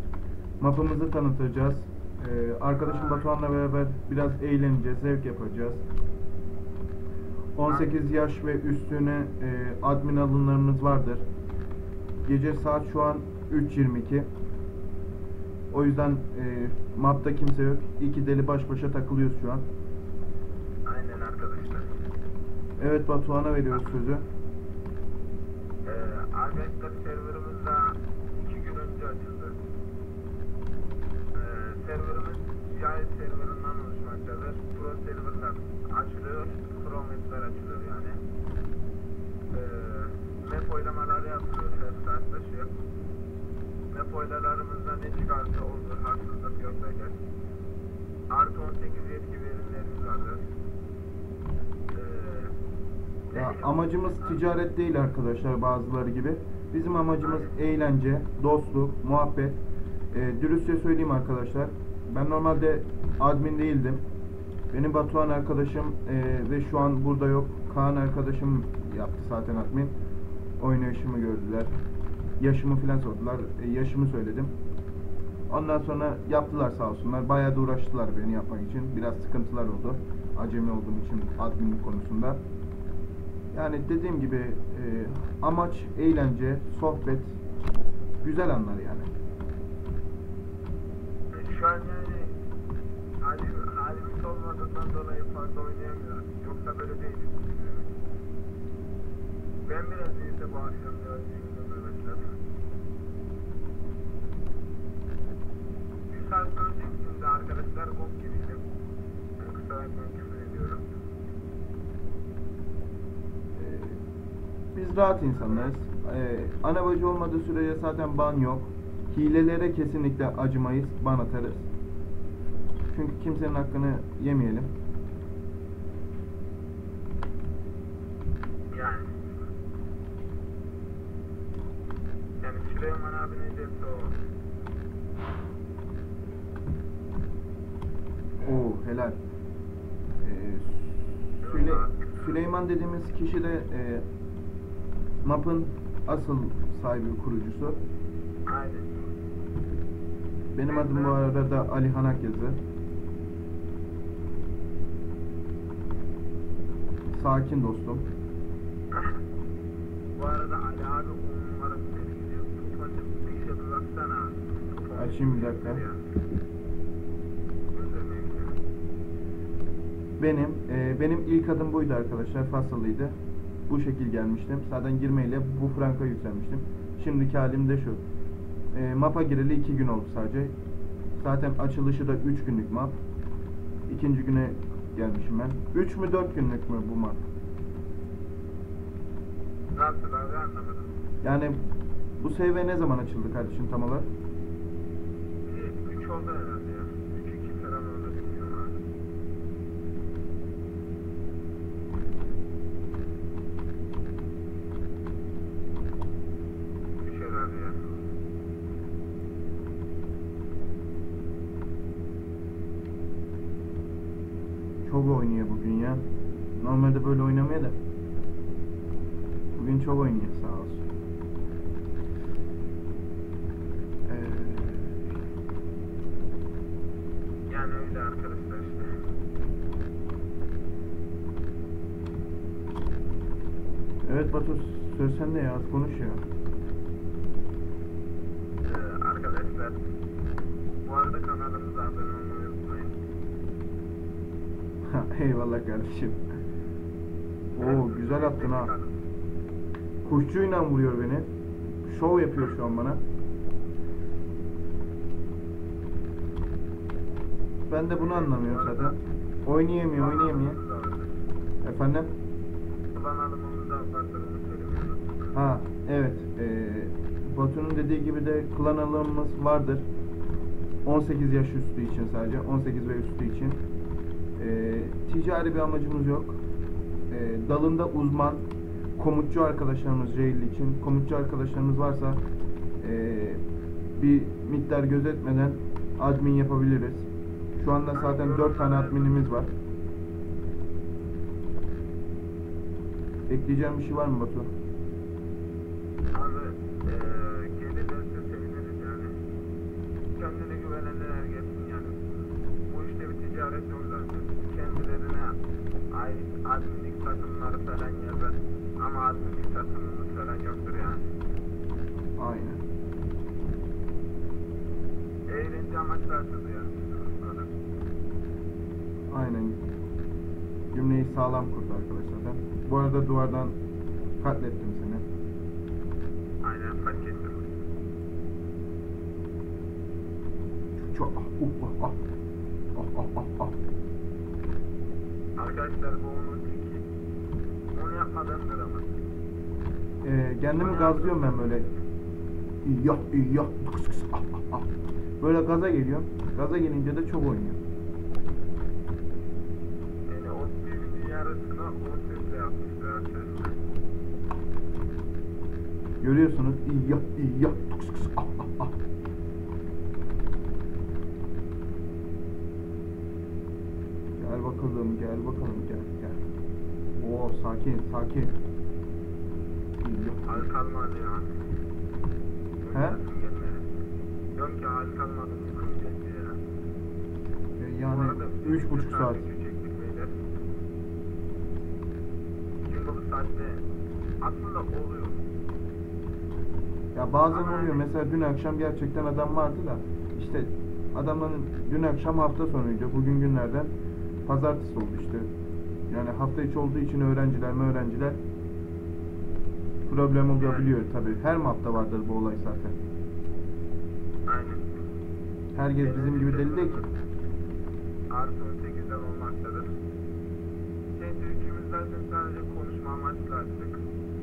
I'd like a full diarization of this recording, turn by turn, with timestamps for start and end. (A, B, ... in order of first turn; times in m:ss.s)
0:00.6-0:05.8 A
0:02.8-0:03.3 B
0:07.6-0:11.2 A
0:07.6-0:08.0 B
0:12.2-0:14.3 A
0:15.7-0:19.7 A
0:20.9-0:21.9 B
0:22.8-0:24.3 A
0:25.8-0:29.6 B
0:31.3-0:38.2 B
0:39.5-0:42.8 B
0:43.9-0:47.2 B
0:48.3-0:50.5 B
0:51.9-0:52.5 B
0:53.3-0:54.4 B
0:53.3-0:59.6 A
0:57.2-0:57.5 B
1:00.1-1:04.0 A
1:04.7-1:09.9 A
1:10.6-1:11.7 A
1:12.4-1:14.5 A
1:15.5-1:22.4 A
1:23.5-1:27.4 A
1:28.2-1:29.1 A
1:31.3-1:32.3 B
1:33.2-1:37.9 B
1:39.7-1:42.4 B
1:46.1-1:48.6 B
1:49.4-1:50.8 B
1:53.5-1:54.0 A
1:54.8-2:01.7 A
1:55.4-1:55.7 B
2:02.9-2:04.7 A
2:08.7-2:09.1 B
2:12.4-2:14.2 B
2:18.4-2:19.2 A
2:20.2-2:24.1 A
2:21.4-2:22.3 B
2:25.2-2:27.8 A
2:28.5-2:28.9 B
2:30.5-2:32.6 A
2:30.7-2:31.2 B
2:37.1-2:38.1 A
2:38.9-2:39.2 B
2:40.1-2:46.0 B
2:45.0-2:45.8 A
2:47.7-2:48.6 B
2:50.2-2:53.2 A
2:53.7-2:58.0 A
2:58.7-3:00.5 A
3:01.2-3:03.0 A
3:03.9-3:07.2 A
3:09.8-3:10.9 B
3:11.2-3:11.6 A
3:12.2-3:14.1 A
3:15.4-3:18.8 B
3:27.0-3:27.8 B
3:34.8-3:36.0 A
3:36.6-3:37.8 A
3:39.6-3:40.8 A
3:44.1-3:45.0 A
3:47.5-3:48.9 B
3:54.0-3:56.2 A
3:58.6-3:59.8 B
4:00.8-4:03.0 B
4:04.8-4:06.2 A
4:07.5-4:08.7 A
4:07.6-4:09.0 B
4:10.0-4:11.3 A
4:11.8-4:13.0 A
4:17.7-4:20.6 A
4:17.9-4:19.0 B
4:19.9-4:21.1 B
4:21.6-4:22.1 A
4:22.9-4:25.3 B
4:25.3-4:29.9 A
4:30.8-4:33.6 A
4:34.4-4:36.4 A
4:37.1-4:38.4 A
4:39.0-4:42.2 A
4:42.8-4:43.4 A
4:44.0-4:49.5 A
4:47.9-4:49.2 B
4:53.3-4:54.5 A
4:56.1-4:59.1 B
5:00.1-5:02.0 B
5:02.7-5:05.4 B
5:05.9-5:11.1 B
5:12.2-5:12.6 A
5:15.3-5:17.5 B
5:19.1-5:19.6 A
5:20.7-5:23.6 A
5:24.2-5:25.0 A
5:26.4-5:27.5 B
5:30.8-5:32.0 A
5:32.8-5:33.6 A
5:35.4-5:36.8 B
5:37.7-5:38.9 B
5:40.0-5:41.7 A
5:40.6-5:41.6 B
5:42.6-5:44.7 A
5:45.2-5:47.6 A
5:50.1-5:53.6 B
5:56.0-5:58.8 A
6:04.2-6:06.2 A
6:06.9-6:08.4 A
6:09.8-6:10.5 A
6:10.2-6:11.3 B
6:12.6-6:13.7 B
6:12.7-6:13.0 A
6:14.3-6:16.4 B
6:17.6-6:19.2 A
6:17.9-6:20.1 B
6:22.6-6:23.6 B
6:24.2-6:25.2 B
6:26.9-6:33.7 A
6:27.3-6:27.9 B
6:34.2-6:35.3 A
6:35.9-6:38.2 A
6:39.9-6:42.8 A
6:40.3-6:40.7 B
6:44.2-6:44.6 B
6:45.5-6:46.8 A
6:45.8-6:46.9 B
6:48.1-6:49.7 B
6:50.9-6:53.8 B